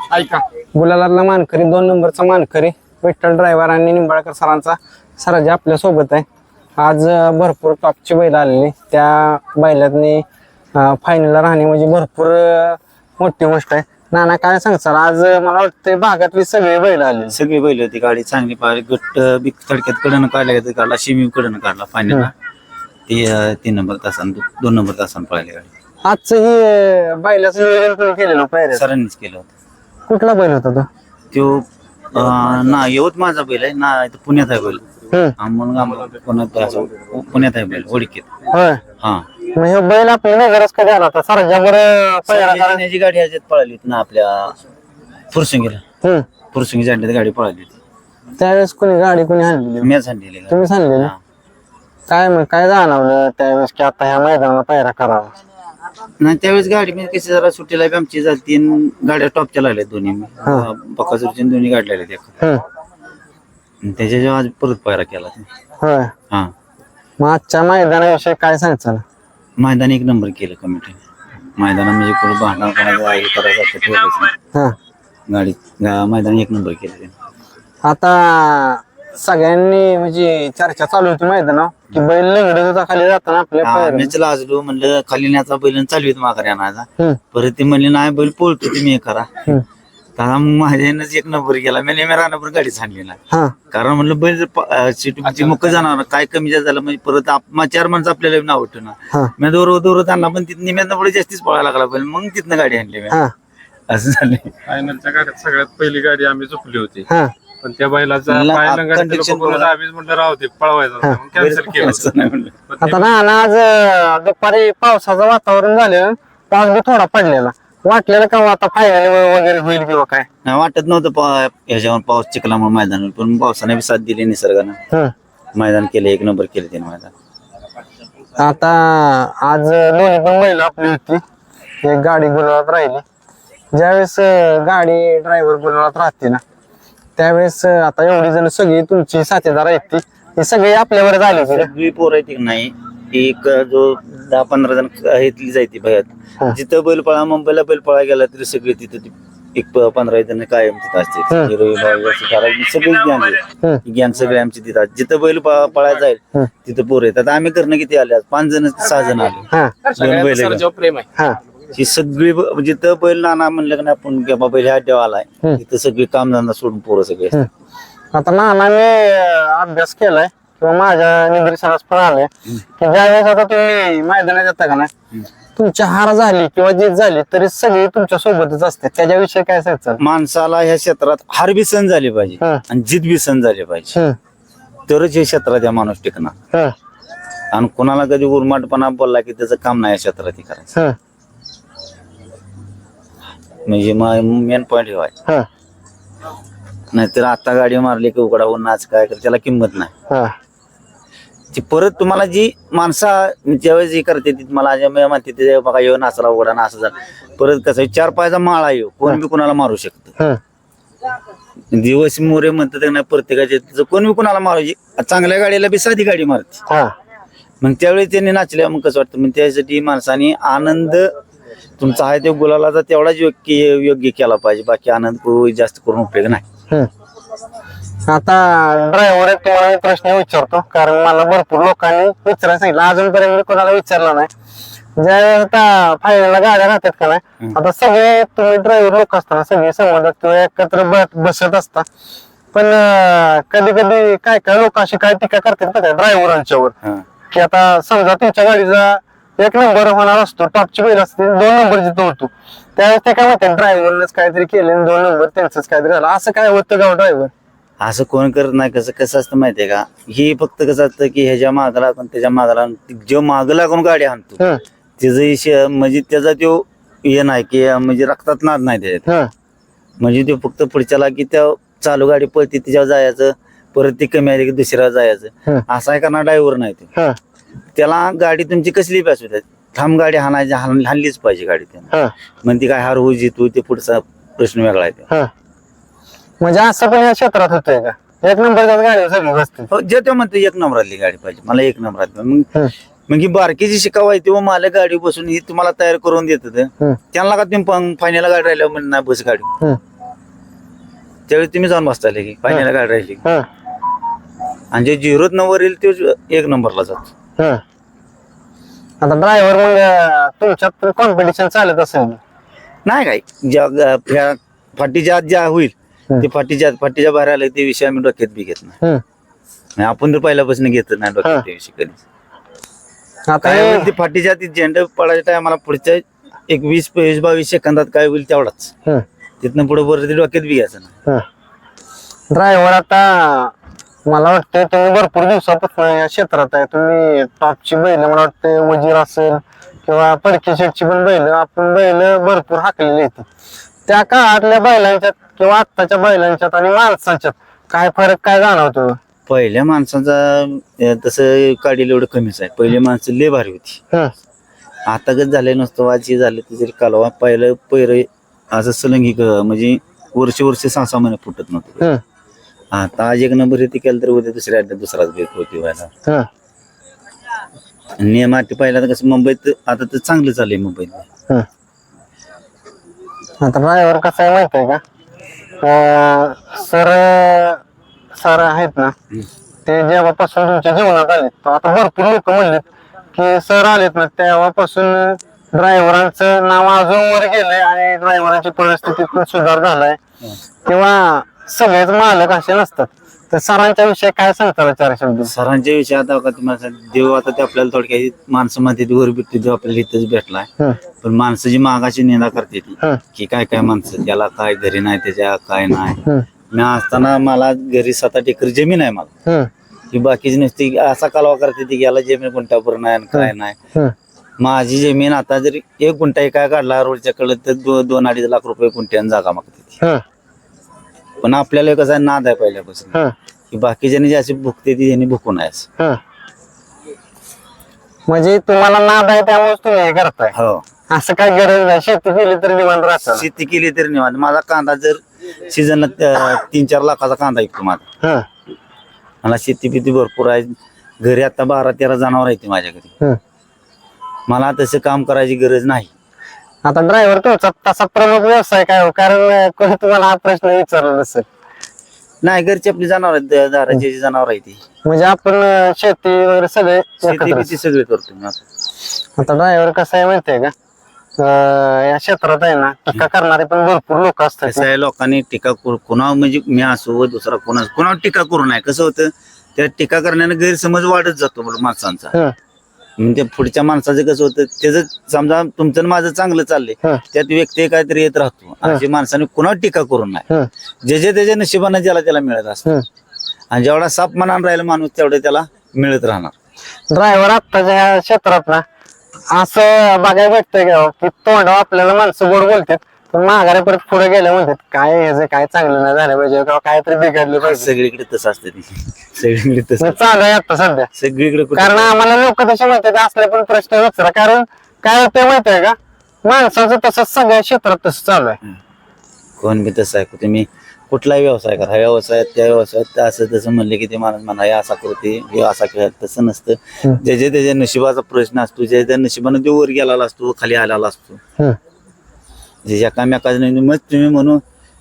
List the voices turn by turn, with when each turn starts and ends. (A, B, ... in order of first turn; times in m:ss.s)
0:00.8-0:06.3 A
0:06.8-0:17.4 A
0:17.3-0:22.3 B
0:23.1-0:25.7 B
0:26.0-0:28.8 A
0:28.7-0:29.5 B
0:30.1-0:30.9 A
0:31.3-0:34.8 B
0:35.1-0:35.4 A
0:35.4-0:38.3 B
0:38.5-0:38.8 A
0:39.0-0:39.3 B
0:39.5-0:42.8 A
0:42.3-0:44.6 B
0:45.3-0:45.8 B
0:46.0-0:46.3 A
0:46.5-0:47.8 B
0:48.4-0:49.9 A
0:49.8-0:51.2 B
0:50.5-0:51.1 A
0:52.1-0:55.4 A
0:56.2-1:02.4 B
1:03.8-1:05.5 B
1:05.8-1:06.1 A
1:07.2-1:09.0 A
1:09.6-1:11.0 B
1:11.6-1:14.4 B
1:15.3-1:17.1 B
1:17.8-1:24.1 A
1:23.6-1:29.6 B
1:30.2-1:33.2 B
1:33.7-1:43.2 B
1:43.9-1:44.5 B
1:44.7-1:47.1 C
1:47.1-1:47.3 A
1:47.6-1:52.1 C
1:48.3-1:49.7 B
1:51.3-1:52.6 B
1:52.7-1:53.1 C
1:52.8-2:00.3 A
2:00.4-2:04.8 B
2:05.6-2:07.1 B
2:08.4-2:11.2 A
2:11.8-2:13.0 A
2:13.7-2:16.4 A
2:17.2-2:21.7 A
2:21.4-2:40.7 B
2:39.5-2:39.8 A
2:39.9-2:41.0 C
2:41.7-2:47.4 B
2:48.1-2:54.9 A
2:55.6-3:00.0 A
3:00.0-3:04.0 B
3:04.9-3:06.4 B
3:07.5-3:10.7 B
3:13.7-3:15.1 B
3:16.9-3:19.9 B
3:20.1-3:20.4 A
3:21.5-3:30.1 B
3:31.7-3:36.6 B
3:37.6-3:41.1 B
3:41.8-3:46.4 B
3:48.1-3:54.3 A
3:55.0-4:01.8 A
4:02.5-4:06.8 A
4:07.3-4:17.3 A
4:17.8-4:24.4 B
4:25.0-4:29.1 B
4:29.1-4:29.3 A
4:30.0-4:36.9 B
4:37.8-4:41.9 B
4:42.4-4:45.1 B
4:46.4-4:49.7 A
4:49.7-4:52.5 B
4:53.1-4:59.5 B
5:01.3-5:03.2 B
5:04.7-5:07.1 B
5:07.4-5:07.6 A
5:09.0-5:12.2 A
5:12.9-5:18.8 B
5:19.8-5:22.0 B
5:23.3-5:23.9 A
5:23.4-5:28.7 B
5:29.4-5:30.9 B
5:32.3-5:33.5 A
5:34.1-5:43.3 A
5:43.9-5:49.0 A
5:49.3-5:53.8 B
5:54.9-6:01.9 B
6:02.7-6:05.9 B
6:08.0-6:11.1 B
6:13.4-6:14.8 A
6:15.6-6:17.6 A
6:18.2-6:19.0 A
6:19.7-6:30.0 A
6:30.7-6:35.3 A
6:35.2-6:40.5 B
6:41.0-6:49.1 B
6:49.9-6:53.6 B
6:53.2-6:54.0 A
6:54.4-6:59.8 B
7:01.2-7:03.0 B
7:03.5-7:05.7 B
7:08.1-7:10.3 A
7:10.3-7:10.6 B
7:10.9-7:13.2 A
7:13.1-7:17.8 B
7:19.2-7:22.9 B
7:24.3-7:25.9 B
7:26.6-7:31.3 A
7:32.2-7:34.6 B
7:34.8-7:37.5 A
7:37.0-7:38.4 B
7:39.2-7:40.5 A
7:41.2-7:44.7 A
7:44.4-7:52.2 B
7:53.0-8:00.3 B
8:00.8-8:02.7 B
8:03.5-8:06.3 B
8:06.9-8:08.6 A
8:09.3-8:17.7 A
8:17.4-8:20.0 B
8:19.8-8:20.9 A
8:21.0-8:21.9 B
8:21.6-8:28.4 A
8:29.4-8:41.2 B
8:42.6-8:44.4 B